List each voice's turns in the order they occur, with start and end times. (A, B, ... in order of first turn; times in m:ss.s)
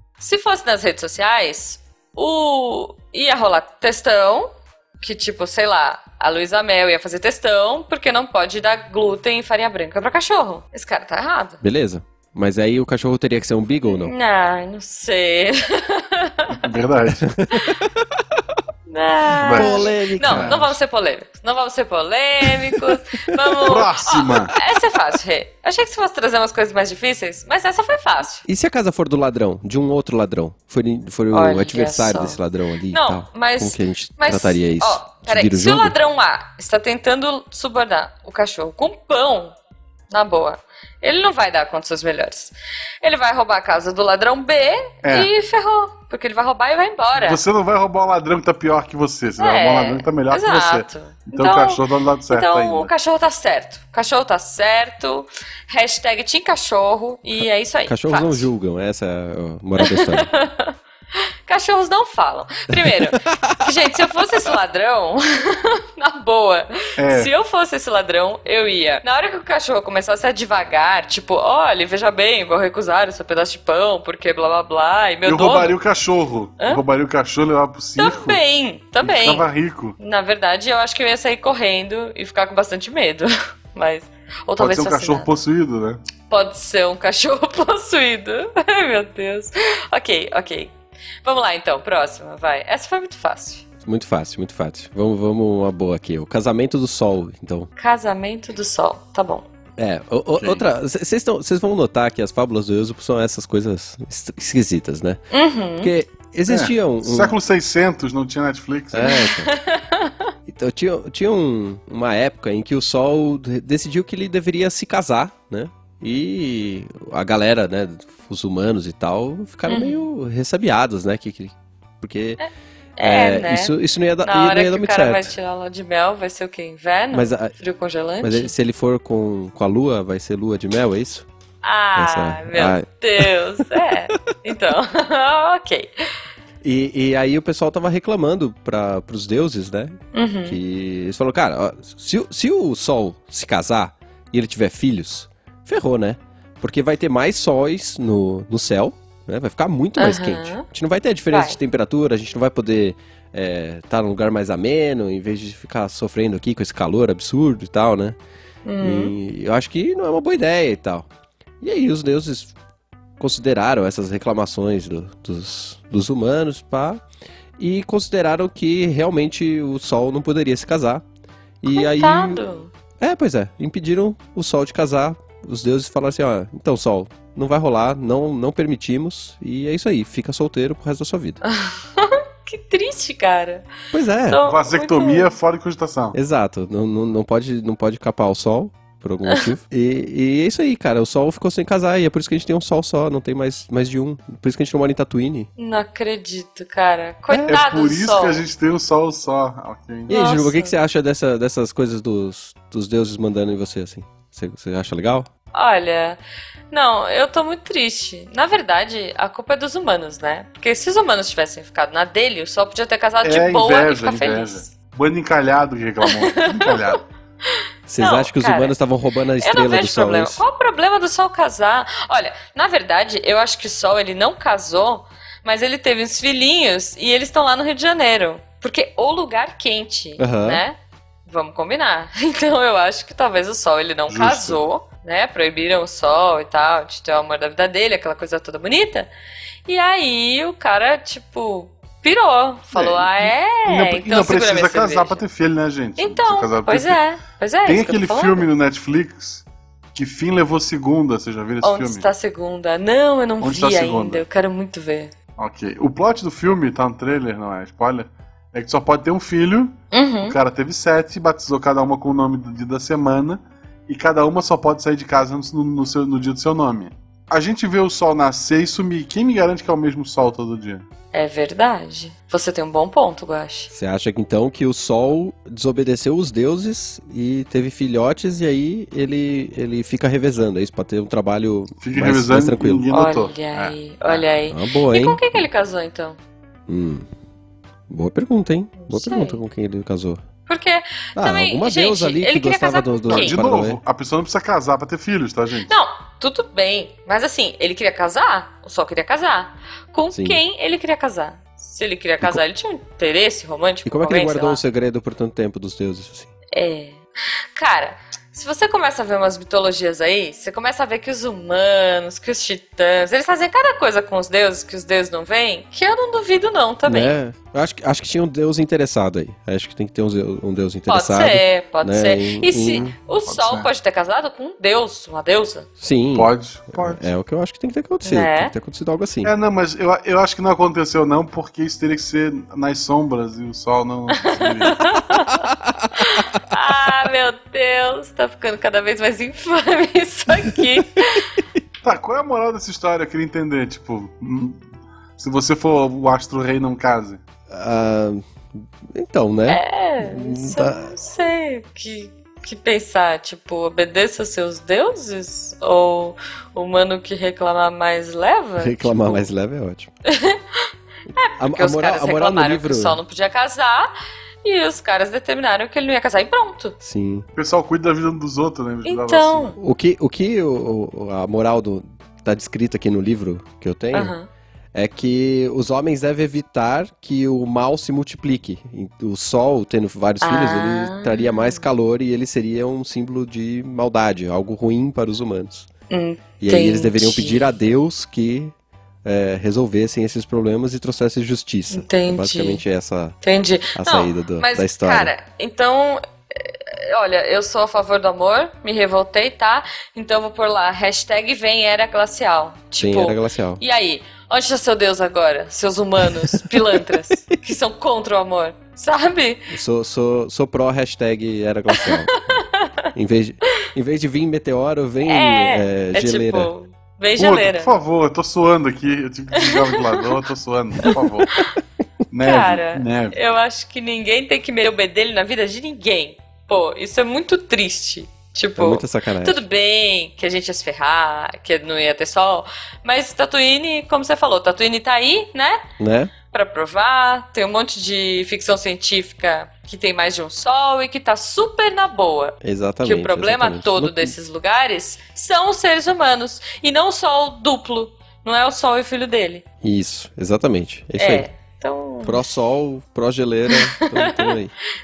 0:00.2-0:11.6 A
0:11.6-0:14.1 B
0:13.9-0:16.6 A
0:16.5-0:17.3 C
0:17.3-0:18.0 B
0:18.9-0:28.4 A
0:19.4-0:20.7 C
0:19.5-0:20.7 B
0:22.4-0:23.0 B
0:23.6-0:24.5 C
0:28.4-0:36.0 B
0:31.3-0:32.4 A
0:32.9-0:39.6 A
0:40.1-0:47.4 A
0:45.0-0:45.3 C
0:47.2-0:52.9 C
0:49.4-0:58.5 A
0:57.9-1:00.3 B
0:59.8-1:00.7 A
1:01.5-1:15.8 A
1:02.8-1:03.7 B
1:07.0-1:07.3 C
1:15.2-1:18.4 C
1:18.0-1:19.5 A
1:19.0-1:20.0 C
1:20.0-1:25.3 A
1:24.6-1:26.0 C
1:26.3-1:30.7 A
1:31.2-1:33.6 A
1:33.8-1:37.7 B
1:37.8-1:39.4 A
1:39.8-1:45.2 B
1:40.4-1:40.7 C
1:45.3-1:45.9 A
1:45.8-1:47.4 B
1:46.5-1:49.2 C
1:48.9-1:49.5 B
1:49.0-1:50.1 A
1:50.5-2:02.4 B
1:59.7-2:00.1 A
2:02.4-2:03.7 A
2:03.0-2:05.3 B
2:04.2-2:08.5 A
2:07.1-2:07.6 B
2:08.2-2:11.3 B
2:11.6-2:15.9 A
2:12.0-2:13.8 B
2:16.6-2:38.2 B
2:20.1-2:20.6 A
2:30.0-2:30.7 A
2:31.3-2:31.6 A
2:38.7-2:39.1 A
2:38.8-2:41.1 B
2:41.6-2:42.5 B
2:43.2-2:47.0 B
2:47.6-2:51.0 B
2:51.6-2:52.4 B
2:51.7-2:52.7 A
2:53.0-3:01.4 B
3:01.5-3:03.7 A
3:03.9-3:04.4 B
3:04.3-3:05.3 A
3:04.4-3:06.2 C
3:06.1-3:15.5 B
3:15.6-3:18.4 A
3:17.5-3:20.1 C
3:20.1-3:20.8 A
3:20.1-3:25.3 B
3:25.5-3:26.2 A
3:26.7-3:34.7 A
3:33.2-3:37.0 C
3:36.0-3:37.0 A
3:37.9-3:40.4 B
3:38.0-3:38.8 A
3:39.4-3:59.1 A
3:50.2-3:50.6 B
3:54.1-3:54.6 C
3:59.7-4:05.2 A
4:02.7-4:07.0 C
4:06.0-4:08.5 A
4:07.7-4:12.1 C
4:11.6-4:15.1 A
4:13.4-4:14.2 C
4:15.4-4:30.8 C
4:19.9-4:20.4 A
4:31.1-4:33.7 A
4:33.7-4:42.8 B
4:41.8-4:44.2 C
4:42.9-4:46.2 A
4:44.5-4:45.2 B
4:46.7-4:47.1 B
4:47.9-4:50.2 B
4:48.8-4:49.4 A
4:50.5-4:53.4 A
4:51.2-4:53.8 B
4:53.1-4:55.8 C
4:55.7-5:04.6 A
5:00.1-5:00.4 B
5:03.8-5:06.3 B
5:06.5-5:07.0 A
5:07.6-5:17.2 A
5:16.8-5:23.0 B
5:20.9-5:25.7 A
5:23.3-5:23.7 C
5:25.8-5:29.3 B
5:26.2-5:27.1 C
5:28.0-5:28.5 A
5:29.2-5:34.8 C
5:34.3-5:35.5 A
5:35.1-5:36.2 B
5:36.0-5:41.3 A
5:41.8-5:44.6 C
5:45.2-5:47.2 C
5:47.5-5:50.9 B
5:49.5-5:59.3 A
5:58.6-5:59.9 B
6:00.1-6:03.9 A
6:01.3-6:03.0 B
6:04.4-6:06.8 A
6:06.8-6:07.3 B
6:07.4-6:09.5 C
6:08.8-6:09.6 A
6:09.6-6:14.2 B
6:13.9-6:14.3 A
6:14.7-6:25.7 B
6:20.2-6:21.6 A
6:25.9-6:27.4 A
6:26.4-6:33.2 B
6:31.7-6:32.6 A
6:33.2-6:49.5 A
6:33.8-6:35.1 B
6:42.8-6:43.6 B
6:46.2-6:46.8 B
6:49.5-6:52.1 B
6:51.7-6:52.9 A
6:52.9-6:56.5 B
6:55.0-6:57.7 A
6:57.2-7:01.3 C
6:59.4-7:00.0 A
7:00.9-7:01.4 A
7:02.1-7:03.2 C
7:02.2-7:15.6 A
7:08.6-7:09.4 B
7:15.8-7:16.1 B
7:16.3-7:29.4 A
7:22.4-7:24.1 B
7:29.6-7:31.3 B
7:31.0-7:32.3 A
7:32.0-7:34.5 B
7:33.5-7:34.4 A